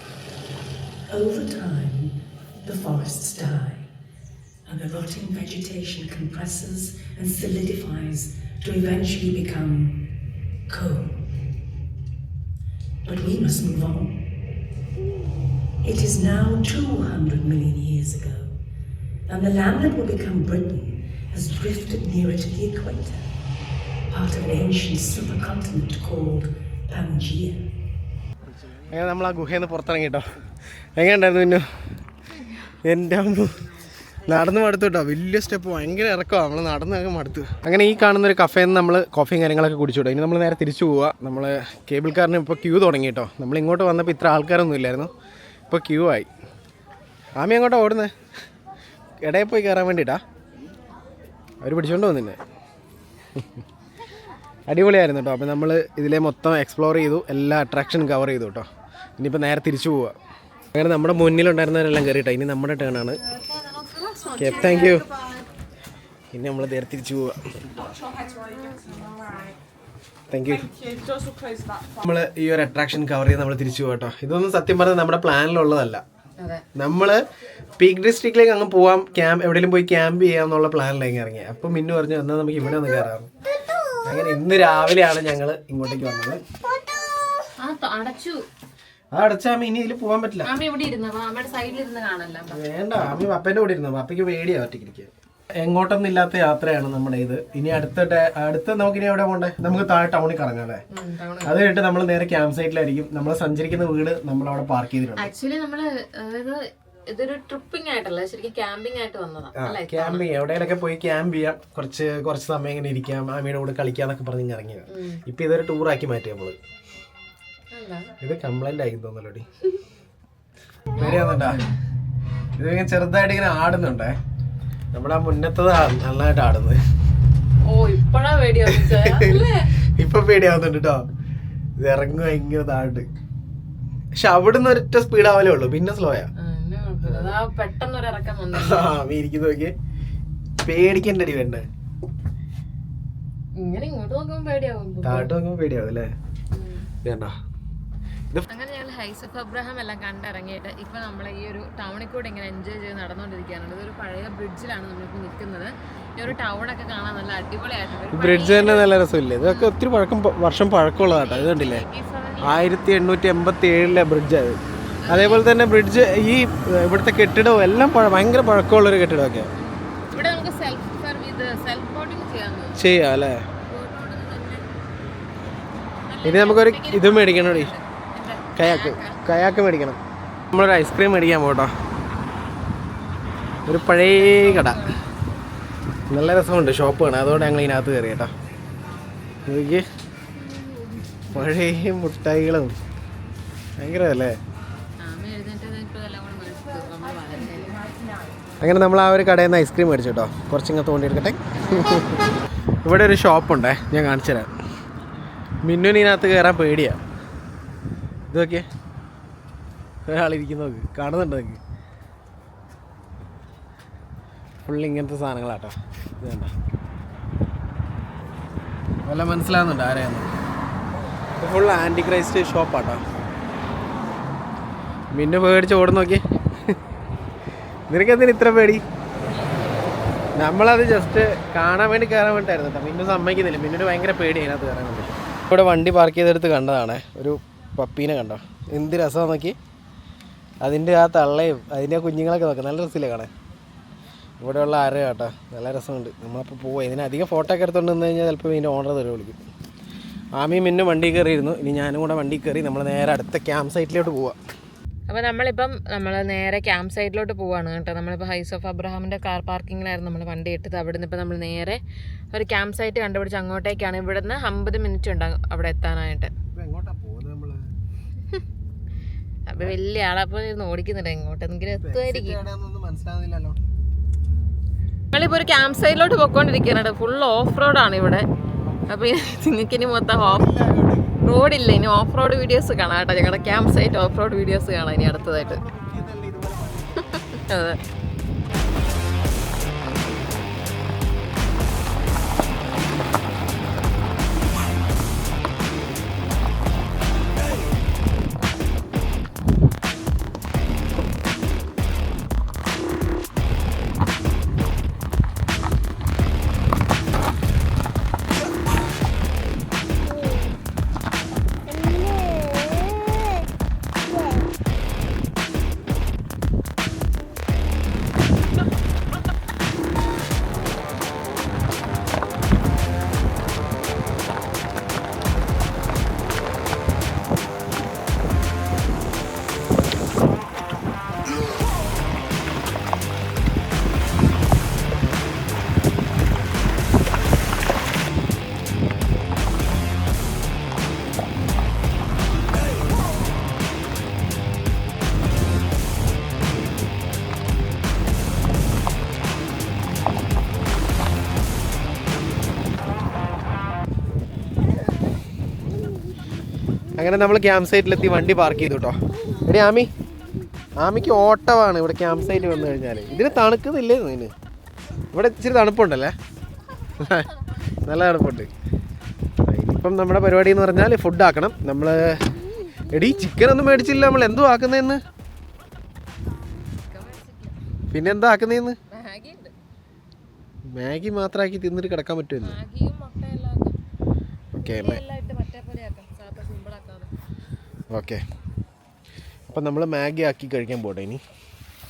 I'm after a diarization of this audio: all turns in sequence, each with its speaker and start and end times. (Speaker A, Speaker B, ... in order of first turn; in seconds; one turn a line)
Speaker A: 1.1-3.9
Speaker A: 4.7-10.1
Speaker A: 10.7-11.3
Speaker A: 13.0-14.3
Speaker A: 15.8-18.5
Speaker A: 19.3-23.2
Speaker A: 24.1-27.6
Speaker B: 28.9-30.2
Speaker B: 31.0-31.6
Speaker B: 32.8-33.6
Speaker B: 34.2-45.1
Speaker B: 45.7-46.3
Speaker B: 47.4-48.1
Speaker B: 49.2-50.2
Speaker B: 51.6-52.4
Speaker B: 53.3-53.6
Speaker B: 54.7-60.1
Speaker B: 60.7-63.2
Speaker C: 63.4-65.4
Speaker B: 64.4-65.1
Speaker B: 66.3-67.8
Speaker C: 68.1-69.5
Speaker B: 70.3-70.7
Speaker C: 70.8-71.8
Speaker B: 71.9-76.0
Speaker C: 76.4-76.6
Speaker B: 76.7-77.2
Speaker B: 77.8-83.3
Speaker B: 84.0-86.4
Speaker C: 87.6-88.4
Speaker B: 89.1-90.5
Speaker C: 90.4-92.6
Speaker B: 92.5-100.8
Speaker C: 100.9-101.6
Speaker B: 101.4-105.3
Speaker C: 105.2-110.2
Speaker B: 109.5-116.5
Speaker C: 114.9-115.2
Speaker C: 117.7-118.1
Speaker B: 118.2-119.5
Speaker B: 120.9-121.7
Speaker C: 121.0-121.6
Speaker B: 122.6-124.2
Speaker B: 124.9-126.8
Speaker C: 127.7-129.7
Speaker B: 128.7-129.4
Speaker B: 129.9-131.1
Speaker B: 131.8-133.1
Speaker B: 134.1-136.3
Speaker C: 136.4-138.9
Speaker B: 137.0-137.3
Speaker B: 138.5-139.7
Speaker B: 140.6-141.7
Speaker C: 143.6-145.3
Speaker B: 145.0-146.1
Speaker C: 146.5-146.9
Speaker B: 147.0-147.3
Speaker C: 148.5-158.9
Speaker B: 158.1-161.8
Speaker C: 159.4-159.7
Speaker C: 161.1-162.8
Speaker B: 162.4-169.5
Speaker C: 165.0-165.4
Speaker C: 169.6-172.8
Speaker B: 172.8-173.5
Speaker C: 173.6-174.9
Speaker C: 176.1-179.4
Speaker B: 176.2-177.7
Speaker B: 178.6-180.0
Speaker B: 180.5-181.7
Speaker B: 183.7-184.8
Speaker C: 183.7-185.1
Speaker B: 186.1-188.3
Speaker B: 189.4-189.9
Speaker C: 190.4-191.2
Speaker B: 191.3-192.7
Speaker B: 193.8-194.4
Speaker C: 195.0-197.8
Speaker B: 198.6-202.3
Speaker C: 201.6-202.0
Speaker B: 202.8-204.5
Speaker B: 205.6-207.0
Speaker B: 208.3-208.7
Speaker B: 210.1-211.6
Speaker B: 214.6-216.5
Speaker B: 219.1-220.3
Speaker B: 221.4-223.0
Speaker B: 225.1-226.8
Speaker B: 227.9-228.8
Speaker B: 230.4-239.6
Speaker B: 240.6-243.3
Speaker B: 244.4-249.4
Speaker B: 250.4-254.4
Speaker C: 255.1-261.8
Speaker C: 262.3-266.3
Speaker B: 266.5-267.7
Speaker C: 269.5-272.4
Speaker B: 271.8-273.6
Speaker C: 275.1-278.2
Speaker C: 278.9-280.5
Speaker B: 280.2-281.1
Speaker C: 281.2-285.6
Speaker B: 285.3-287.0
Speaker C: 287.1-287.8
Speaker B: 357.0-359.9
Speaker B: 360.8-364.3
Speaker B: 365.1-366.1
Speaker B: 367.0-367.3
Speaker B: 367.9-368.5
Speaker B: 369.4-372.3
Speaker B: 372.9-375.0
Speaker C: 376.8-377.6
Speaker B: 377.9-378.8
Speaker C: 378.9-379.5
Speaker B: 380.7-382.6
Speaker C: 382.4-383.8
Speaker B: 384.5-385.0
Speaker C: 384.6-387.1
Speaker B: 387.9-388.2
Speaker B: 389.5-391.2